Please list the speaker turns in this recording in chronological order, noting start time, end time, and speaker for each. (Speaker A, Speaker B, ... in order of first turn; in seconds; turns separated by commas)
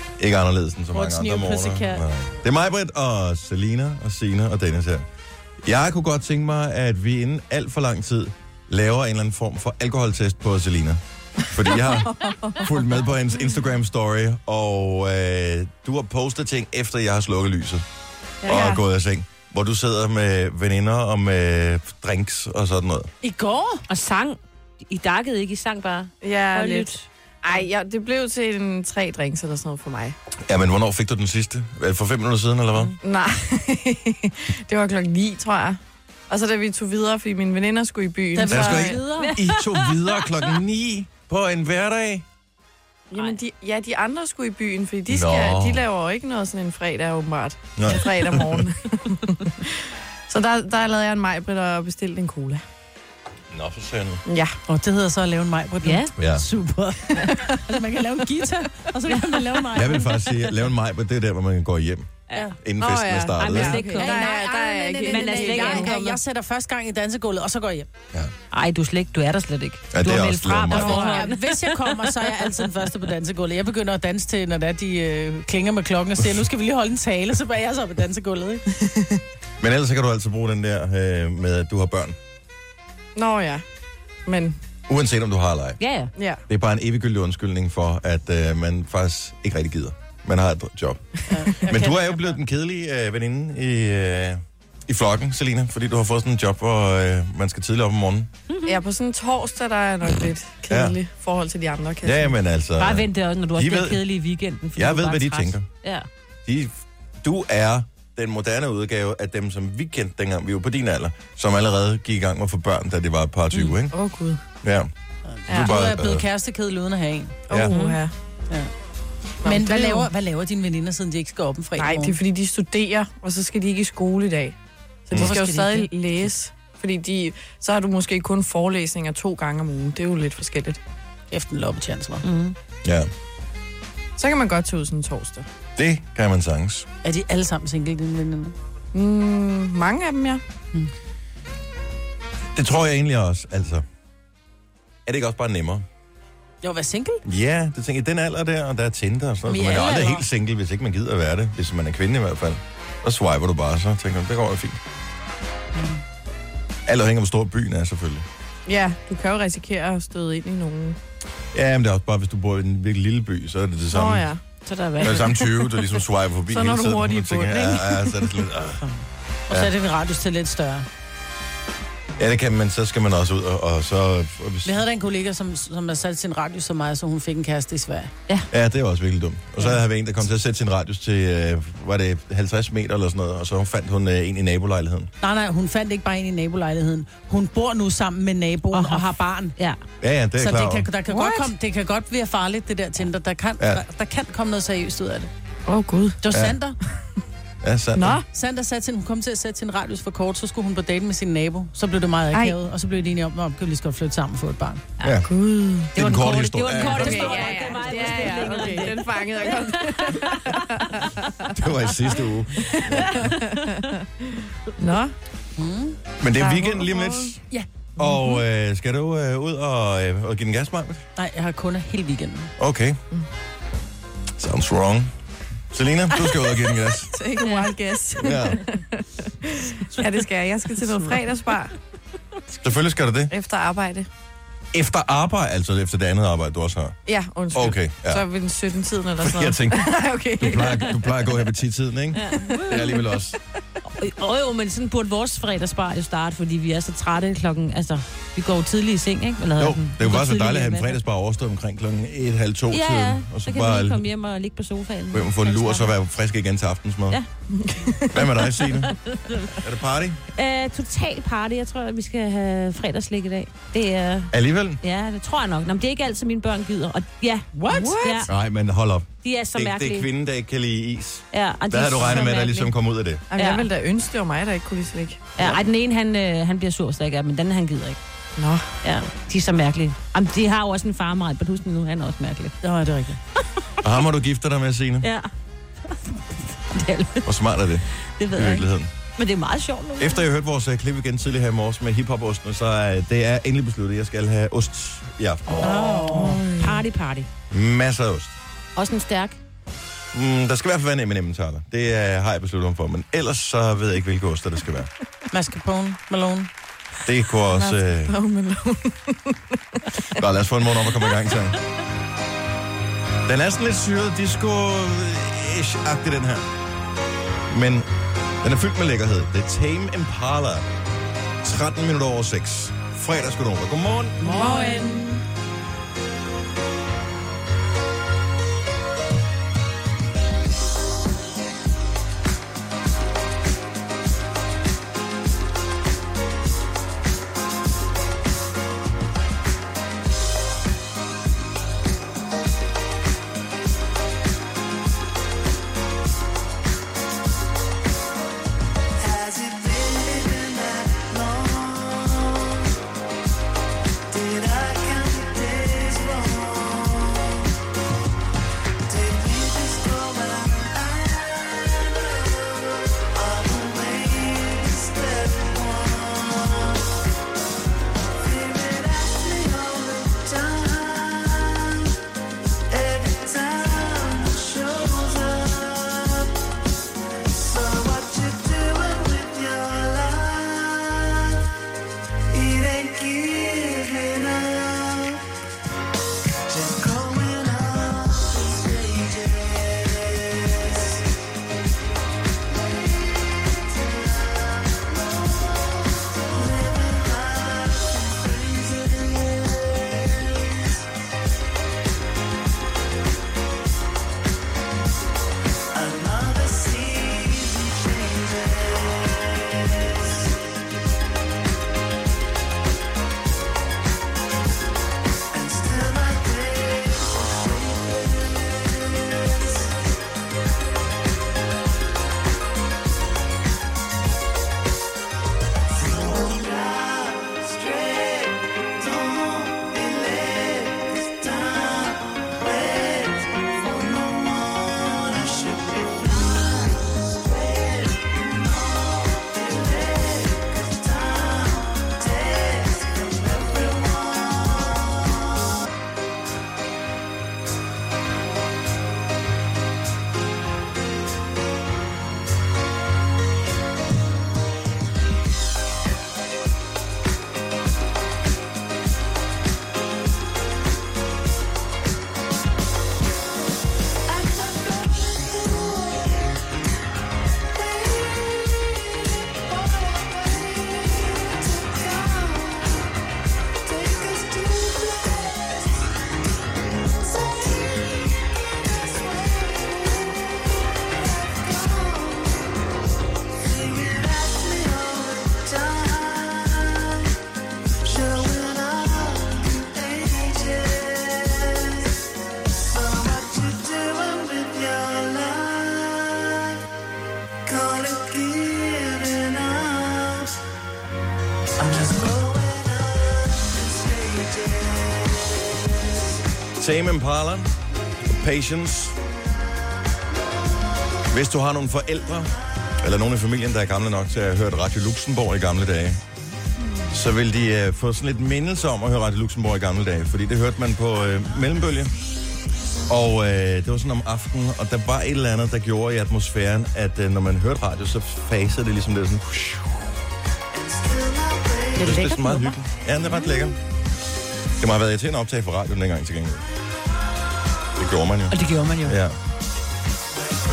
Speaker A: 0.2-5.0, Speaker B: 0.9-2.0, Speaker A: 5.6-17.9, Speaker C: 11.6-12.7, Speaker C: 18.4-18.8, Speaker A: 18.4-23.1, Speaker B: 23.2-23.8, Speaker D: 23.9-27.1, Speaker C: 26.2-26.9, Speaker C: 27.4-30.1, Speaker A: 30.5-32.9, Speaker C: 33.0-39.0, Speaker B: 38.3-39.3, Speaker A: 38.5-42.2, Speaker D: 39.2-40.0, Speaker C: 43.1-49.7, Speaker A: 45.1-45.9, Speaker A: 47.8-48.7, Speaker C: 50.3-52.6, Speaker A: 53.5-54.2, Speaker C: 54.3-54.5, Speaker B: 54.7-60.5, Speaker D: 55.8-56.1, Speaker A: 56.2-56.5, Speaker C: 57.1-57.5, Speaker D: 59.1-59.5, Speaker A: 59.7-63.9, Speaker D: 62.3-62.5, Speaker C: 62.8-66.2, Speaker D: 63.4-66.0, Speaker B: 63.6-67.9, Speaker D: 68.5-72.6, Speaker A: 69.9-71.2, Speaker B: 70.7-78.6, Speaker C: 78.8-79.2, Speaker A: 79.6-82.2, Speaker C: 83.2-83.6, Speaker C: 84.3-84.6, Speaker A: 84.9-85.8, Speaker D: 85.8-86.1, Speaker A: 86.5-98.3, Speaker B: 91.3-92.3, Speaker D: 98.5-98.8, Speaker C: 98.7-102.4, Speaker A: 100.7-101.0, Speaker A: 102.0-104.0, Speaker D: 102.8-106.1, Speaker A: 104.8-105.7, Speaker A: 106.5-113.9, Speaker C: 113.9-114.4, Speaker A: 114.6-114.9, Speaker B: 115.3-117.4, Speaker C: 115.5-115.8, Speaker A: 115.5-116.2, Speaker C: 117.5-118.1, Speaker D: 117.7-118.0, Speaker C: 119.4-120.1, Speaker B: 119.4-122.2, Speaker C: 121.8-124.5, Speaker C: 125.1-130.8, Speaker B: 125.1-125.9, Speaker B: 131.3-132.2, Speaker D: 132.2-132.6, Speaker A: 132.8-133.1, Speaker C: 134.2-135.5, Speaker A: 135.8-136.9, Speaker B: 137.0-138.6, Speaker C: 138.9-140.4, Speaker A: 142.6-143.8, Speaker A: 145.1-145.9, Speaker B: 146.6-147.2, Speaker A: 147.2-154.8, Speaker B: 149.5-150.2, Speaker A: 156.9-158.2, Speaker C: 158.7-161.0, Speaker A: 161.5-164.3, Speaker C: 163.9-165.4, Speaker A: 165.0-168.8, Speaker C: 166.5-168.3, Speaker B: 169.5-170.9, Speaker A: 172.2-174.8, Speaker B: 174.6-178.1, Speaker A: 178.5-185.1, Speaker B: 185.2-189.5, Speaker D: 188.7-189.8, Speaker A: 190.0-190.9, Speaker B: 190.4-195.3, Speaker C: 195.7-196.2, Speaker B: 196.2-196.8, Speaker A: 196.3-196.6, Speaker A: 197.6-198.2, Speaker C: 198.0-198.2, Speaker B: 198.3-204.8, Speaker A: 205.0-205.3, Speaker C: 205.3-205.9, Speaker A: 205.9-207.4, Speaker D: 206.0-211.1, Speaker C: 206.8-211.5, Speaker B: 207.2-208.8, Speaker A: 211.5-213.3, Speaker C: 212.6-215.2, Speaker B: 215.6-216.0, Speaker A: 216.2-217.4, Speaker C: 216.3-217.3, Speaker A: 218.0-221.1, Speaker B: 221.2-222.5, Speaker A: 222.6-223.0, Speaker A: 224.4-225.1, Speaker A: 225.7-227.2, Speaker C: 227.1-231.7, Speaker D: 227.4-227.7, Speaker A: 228.2-228.6, Speaker B: 229.9-231.2, Speaker A: 232.6-233.3, Speaker C: 233.3-234.1, Speaker A: 234.7-237.0, Speaker C: 237.1-241.0, Speaker A: 237.5-238.2, Speaker A: 239.2-243.4, Speaker D: 242.1-243.1, Speaker C: 242.4-243.0, Speaker D: 244.0-251.0, Speaker A: 249.6-254.1, Speaker D: 252.7-255.9, Speaker A: 255.1-257.2, Speaker C: 257.5-258.2, Speaker A: 258.1-258.9, Speaker D: 258.7-259.4, Speaker A: 259.6-260.2, Speaker D: 260.4-268.3, Speaker A: 264.3-264.8, Speaker B: 267.5-268.0, Speaker C: 267.7-268.3, Speaker A: 268.2-273.2, Speaker D: 269.2-270.1, Speaker D: 271.3-272.7, Speaker C: 273.3-275.3, Speaker D: 273.3-273.7, Speaker D: 275.4-278.0, Speaker C: 278.4-278.7, Speaker D: 278.8-282.6, Speaker B: 282.6-283.2, Speaker A: 283.8-285.1, Speaker D: 285.0-285.3, Speaker D: 286.7-287.3, Speaker A: 287.2-288.9, Speaker D: 288.2-290.3, Speaker A: 290.0-295.7, Speaker B: 295.6-296.4, Speaker D: 295.6-297.3, Speaker C: 296.2-296.8, Speaker A: 297.5-298.4, Speaker D: 298.8-299.4, Speaker A: 300.1-304.9, Speaker B: 305.3-306.5, Speaker A: 307.1-308.1, Speaker C: 307.5-309.4, Speaker A: 310.1-311.6, Speaker A: 313.2-316.5, Speaker A: 317.5-317.9, Speaker A: 318.4-320.7, Speaker A: 321.4-324.2, Speaker C: 324.2-325.2, Speaker D: 324.2-325.0, Speaker E: 349.1-352.3, Speaker E: 354.1-356.9, Speaker E: 358.9-361.3, Speaker E: 363.2-366.2, Speaker E: 368.2-371.6, Speaker E: 372.7-376.1, Speaker E: 377.5-380.7, Speaker E: 382.3-385.1, Speaker E: 386.6-389.1, Speaker E: 396.5-397.3, Speaker E: 405.9-407.4, Speaker E: 443.4-443.8, Speaker A: 506.6-507.5, Speaker A: 508.0-509.0, Speaker A: 511.1-516.0, Speaker A: 516.9-521.9, Speaker A: 522.9-529.8, Speaker A: 531.8-533.6, Speaker D: 531.8-532.5, Speaker A: 534.6-536.5, Speaker A: 537.8-539.2, Speaker D: 538.3-539.0